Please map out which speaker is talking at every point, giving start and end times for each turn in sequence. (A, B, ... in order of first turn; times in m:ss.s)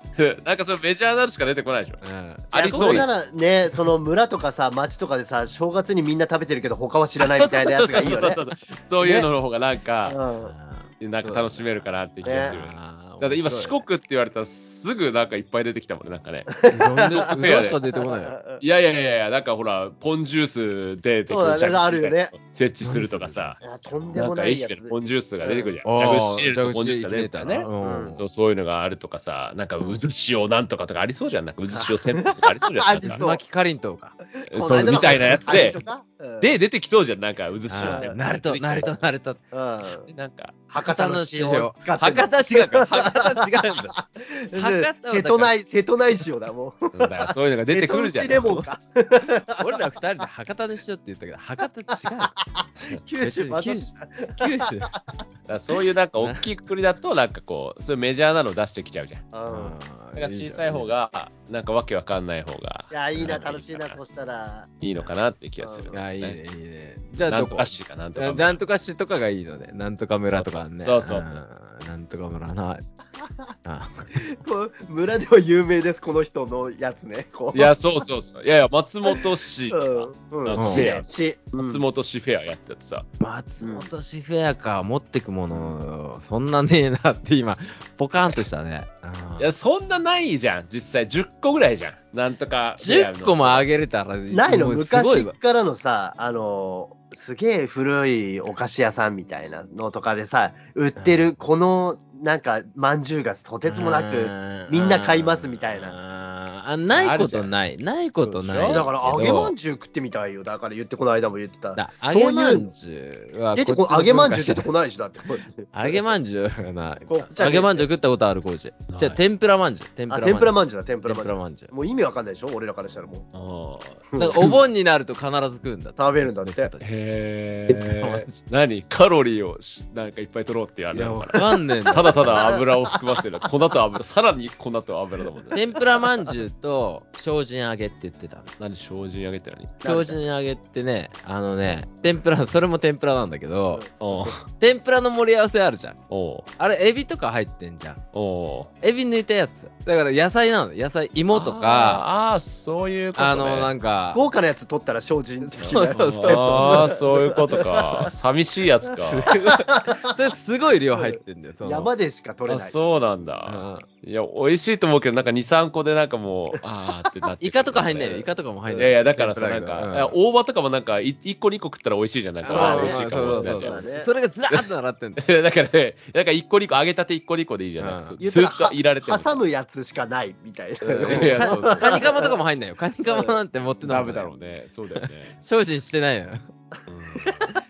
0:00.2-0:02.0 A
0:02.0-0:03.1 B
0:02.5-0:08.4 C
0:02.7-0:03.1 A
0:07.2-0:10.2 A
0:09.0-0:09.3 C
0:10.0-0:10.5 C
0:10.4-0:13.8 B
0:11.0-0:17.8 A
0:12.2-0:12.6 C
0:16.5-0:17.3 C
0:16.7-0:18.4 B
0:18.1-0:18.6 C
0:18.6-0:23.6 A
0:21.3-0:22.3 C
0:22.8-0:24.2 B
0:23.6-0:25.8 C
0:24.1-0:33.2 A
0:25.8-0:28.2 B
0:27.8-0:28.2 C
0:31.7-0:33.4 C
0:33.0-0:34.2 B
0:34.4-0:36.5 C
0:34.5-0:35.8 A
0:34.8-0:35.7 B
0:36.4-0:38.9 A
0:37.7-0:39.4 B
0:37.8-0:38.1 C
0:39.5-0:40.1 C
0:40.1-0:40.5 A
0:40.7-0:49.8 C
0:40.8-0:44.0 B
0:44.5-0:45.5 B
0:46.9-0:48.6 A
0:49.6-0:52.3 B
0:52.0-0:55.2 C
0:53.2-0:54.9 B
0:55.5-0:59.3 A
0:59.3-0:59.8 C
0:59.5-1:00.9 B
1:00.2-1:04.0 A
1:02.9-1:04.7 C
1:04.8-1:06.4 A
1:05.6-1:06.0 C
1:05.9-1:12.8 B
1:07.2-1:08.6 A
1:10.3-1:11.4 A
1:13.6-1:14.1 B
1:14.2-1:17.8 C
1:17.5-1:23.1 A
1:19.1-1:21.8 C
1:20.6-1:20.9 B
1:23.2-1:29.5 B
1:23.6-1:23.9 C
1:29.4-1:33.7 A
1:32.8-1:35.4 B
1:34.3-1:46.0 C
1:43.7-1:49.5 B
1:46.9-1:47.5 A
1:48.2-1:48.8 A
1:48.7-1:52.7 C
1:51.8-1:54.7 B
1:53.6-1:56.0 C
1:55.7-2:01.7 B
1:57.1-1:57.9 C
1:58.9-1:59.2 A
2:00.1-2:03.3 C
2:03.3-2:04.4 A
2:04.1-2:04.6 C
2:04.2-2:06.9 B
2:06.0-2:06.7 C
2:06.8-2:15.6 A
2:07.7-2:08.3 B
2:10.9-2:12.4 B
2:11.3-2:13.2 C
2:15.5-2:18.5 B
2:18.6-2:19.8 A
2:19.8-2:20.2 C
2:19.8-2:23.8 B
2:23.7-2:24.3 C
2:24.0-2:24.4 A
2:24.5-2:26.0 B
2:26.1-2:26.5 A
2:26.6-2:28.0 B
2:28.1-2:28.7 A
2:28.8-2:32.0 B
2:31.3-2:33.7 A
2:33.2-2:34.2 B
2:34.1-2:38.1 C
2:35.4-2:37.0 B
2:35.6-2:39.4 A
2:39.1-2:41.9 B
2:39.3-2:40.1 C
2:41.0-2:42.8 C
2:42.5-2:53.8 A
2:43.5-2:43.8 B
2:47.4-2:50.2 B
2:52.4-2:54.1 C
2:52.4-2:55.2 B
2:54.5-2:59.4 A
2:57.8-2:58.2 B
2:58.2-3:02.4 C
3:00.8-3:02.0 A
3:01.0-3:04.3 B
3:03.1-3:03.4 C
3:03.8-3:05.4 A
3:05.0-3:06.5 B
3:06.9-3:07.5 A
3:07.3-3:07.6 C